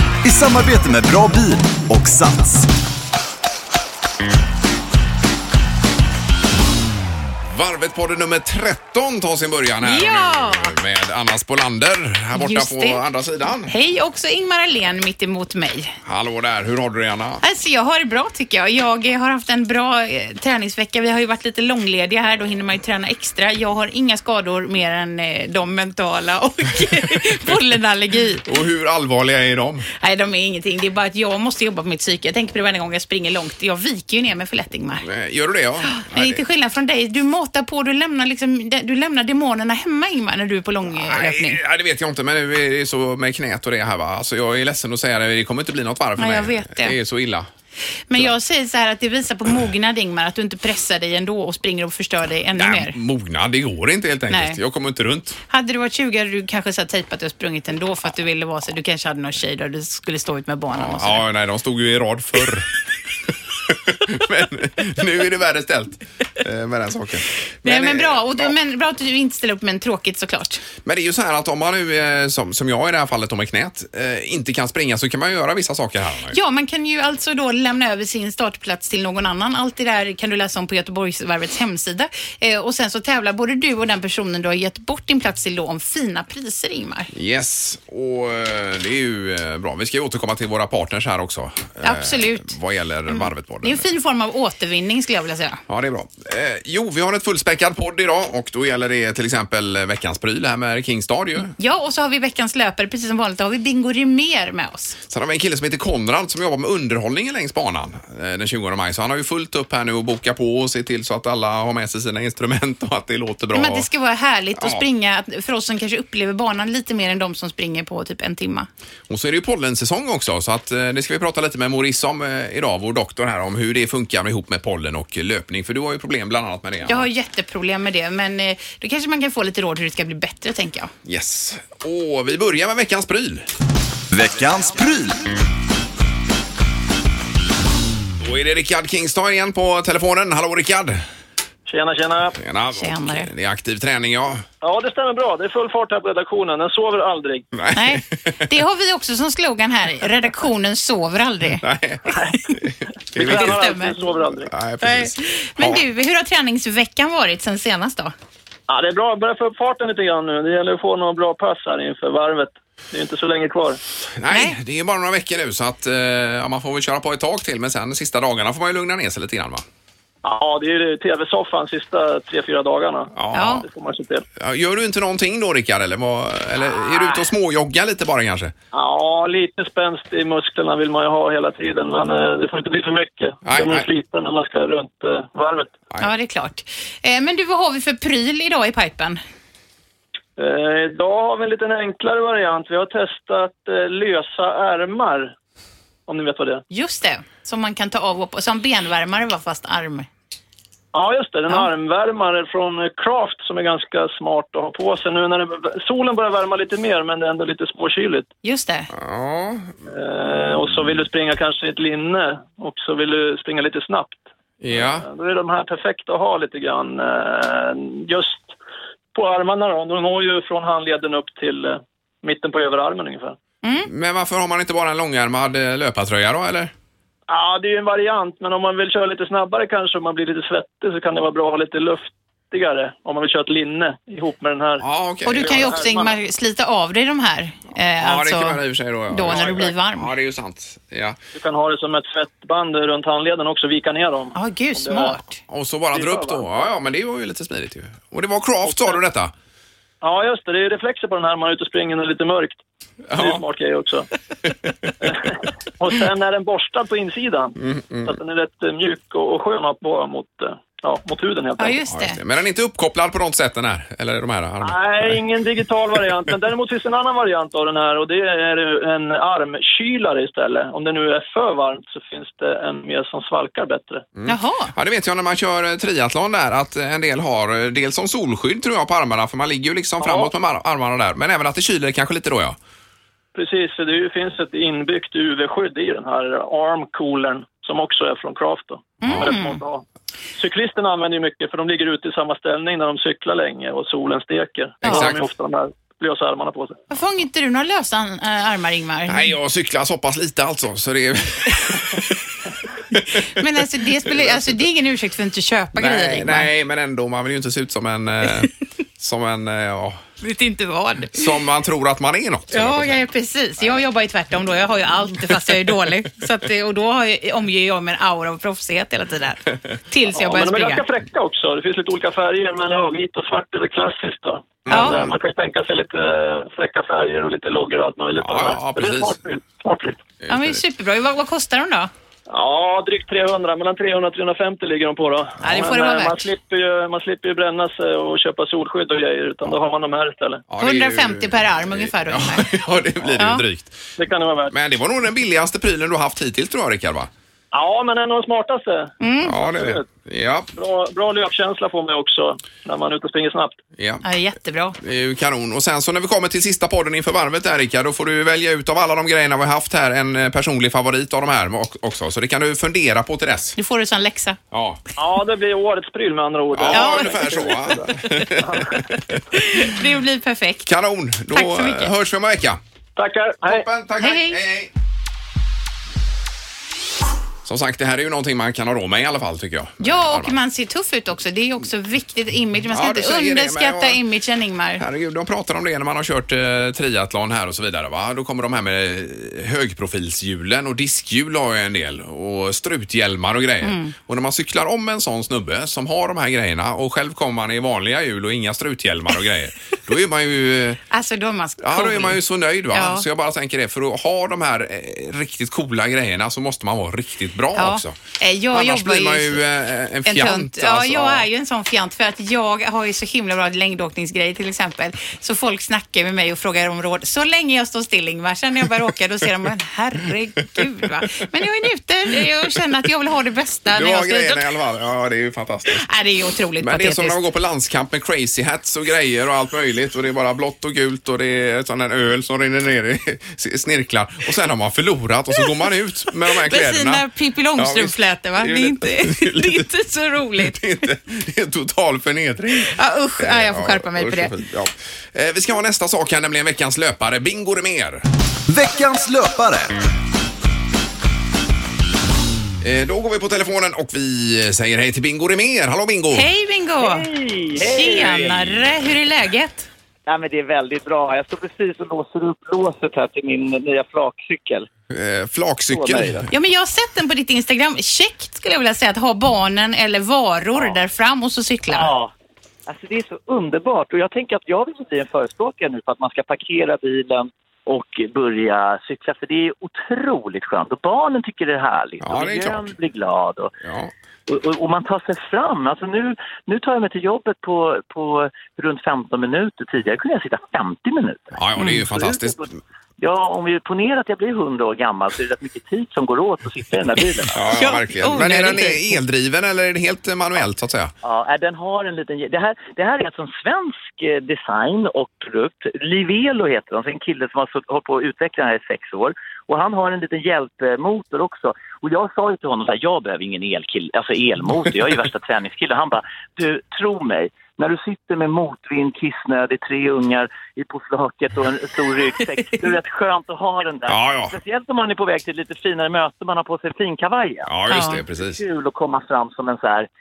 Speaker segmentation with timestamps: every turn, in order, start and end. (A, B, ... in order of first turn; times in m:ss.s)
0:00.2-0:02.7 A
0:07.5-0:13.7 B
0:09.8-0:10.7 C
0:12.4-0:13.0 C
0:13.6-0:16.0 C
0:16.0-0:17.4 B
0:17.4-0:28.5 C
0:28.4-0:29.9 B
0:30.0-0:35.0 C
0:35.0-0:36.4 B
0:35.8-0:41.6 C
0:41.0-0:47.5 B
0:46.2-0:47.0 C
0:48.1-0:53.0 C
0:52.6-0:55.4 B
0:54.3-0:54.6 C
0:55.5-1:01.2 C
1:00.7-1:02.7 B
1:03.7-1:08.5 B
1:07.6-1:10.6 C
1:10.8-1:16.4 B
1:16.3-1:27.1 C
1:27.1-1:33.9 B
1:31.8-1:32.5 C
1:33.1-1:35.6 C
1:35.7-1:41.5 B
1:41.6-1:45.0 C
1:45.1-1:53.9 B
1:53.5-1:58.7 C
1:54.6-1:54.8 B
1:59.1-2:07.1 B
2:06.8-2:10.9 C
2:11.0-2:13.5 B
2:14.1-2:15.2 A
2:18.2-2:21.0 B
2:21.7-2:22.4 D
2:22.4-2:24.4 B
2:22.8-2:23.3 C
2:24.6-2:27.5 D
2:27.5-2:28.5 B
2:27.7-2:31.6 C
2:31.6-2:34.0 B
2:32.1-2:32.4 D
2:33.1-2:34.5 D
2:33.2-2:33.9 C
2:34.5-2:35.8 B
2:34.8-2:38.1 C
2:38.7-2:43.8 D
2:44.2-2:49.6 B
2:44.3-2:44.6 C
2:50.2-2:54.2 D
2:53.1-2:53.6 B
2:53.3-2:53.6 C
2:54.4-2:58.5 B
2:56.9-2:57.3 D
2:58.7-3:05.8 D
3:03.4-3:03.9 B
3:06.0-3:09.2 C
3:10.4-3:15.4 D
3:16.1-3:16.6 D
3:16.7-3:20.1 C
3:20.9-3:28.3 D
3:28.4-3:28.9 C
3:28.9-3:29.7 B
3:29.9-3:38.6 D
3:34.6-3:35.1 B
3:39.1-3:43.4 D
3:43.8-3:46.7 B
3:47.3-3:56.1 D
3:54.8-3:55.8 B
3:55.2-4:00.1 C
3:58.0-4:01.2 B
3:59.3-3:59.6 D
4:01.3-4:05.2 D
4:04.4-4:05.4 C
4:05.5-4:09.3 B
4:05.9-4:06.7 D
4:08.6-4:09.0 D
4:10.0-4:12.6 D
4:13.1-4:13.4 B
4:13.1-4:14.1 D
4:15.0-4:21.8 D
4:17.6-4:18.2 B
4:21.6-4:22.2 C
4:21.9-4:25.2 B
4:24.6-4:34.1 D
4:34.2-4:42.6 B
4:34.3-4:34.7 C
4:40.0-4:40.3 D
4:43.3-4:49.8 D
4:49.0-4:49.6 C
4:49.0-4:49.3 B
4:50.4-4:56.8 D
4:54.8-4:55.2 B
4:54.8-4:55.1 C
4:56.9-4:59.3 C
4:59.1-5:02.2 B
5:02.9-5:03.4 B
5:03.4-5:06.5 C
5:04.1-5:04.6 B
5:05.8-5:10.0 B
5:10.2-5:11.3 C
5:11.1-5:13.0 B
5:12.5-5:20.8 C
5:20.1-5:30.0 D
5:24.7-5:25.2 B
5:24.7-5:25.0 C
5:28.2-5:29.2 B
5:30.2-5:30.6 B
5:30.3-5:31.9 C
5:32.3-5:40.4 D
5:35.4-5:36.3 C
5:40.5-5:43.8 B
5:40.6-5:42.6 C
5:43.2-5:43.4 C
5:44.0-5:44.5 D
5:44.5-5:47.1 B
5:47.5-5:49.9 D
5:49.0-5:49.4 C
5:49.2-5:50.5 B
5:50.6-5:53.6 D
5:53.8-5:54.0 B
5:54.0-5:54.8 C
5:54.8-6:03.6 B
6:03.6-6:04.4 C
6:04.5-6:04.8 B
6:05.0-6:08.8 D
6:06.5-6:09.2 B
6:06.7-6:07.2 C
6:09.4-6:10.7 C
6:10.7-6:12.6 B
6:11.3-6:11.9 C
6:13.0-6:13.7 D
6:13.4-6:14.7 B
6:14.0-6:14.4 C
6:17.4-6:20.4 B
6:19.8-6:24.8 C
6:22.7-6:24.0 B
6:24.8-6:40.8 B
6:33.6-6:33.9 C
6:40.9-6:43.0 C
6:41.6-6:48.0 B
6:47.5-6:49.4 C
6:48.5-6:51.3 B
6:50.1-7:04.4 C
7:03.7-7:05.9 B
7:05.7-7:07.2 C
7:06.6-7:17.1 B
7:16.3-7:20.6 C
7:17.6-7:19.7 B
7:20.4-7:28.0 B
7:22.6-7:24.3 C
7:28.5-7:29.8 A
7:32.6-7:36.3 B
7:36.1-7:37.1 C
7:36.8-7:38.3 E
7:37.6-7:39.7 C
7:37.9-7:38.5 B
7:40.1-7:44.7 E
7:44.9-7:46.3 B
7:45.7-7:46.3 E
7:46.3-7:51.9 C
7:51.7-7:52.1 E
7:52.7-8:03.6 E
8:02.0-8:02.7 B
8:03.6-8:03.9 B
8:04.3-8:12.5 E
8:11.4-8:12.4 B
8:11.6-8:11.8 C
8:13.0-8:17.4 E
8:17.3-8:20.9 B
8:17.5-8:19.0 C
8:21.0-8:49.9 E
8:43.9-8:44.4 B
8:47.5-8:48.4 B
8:47.7-8:48.0 C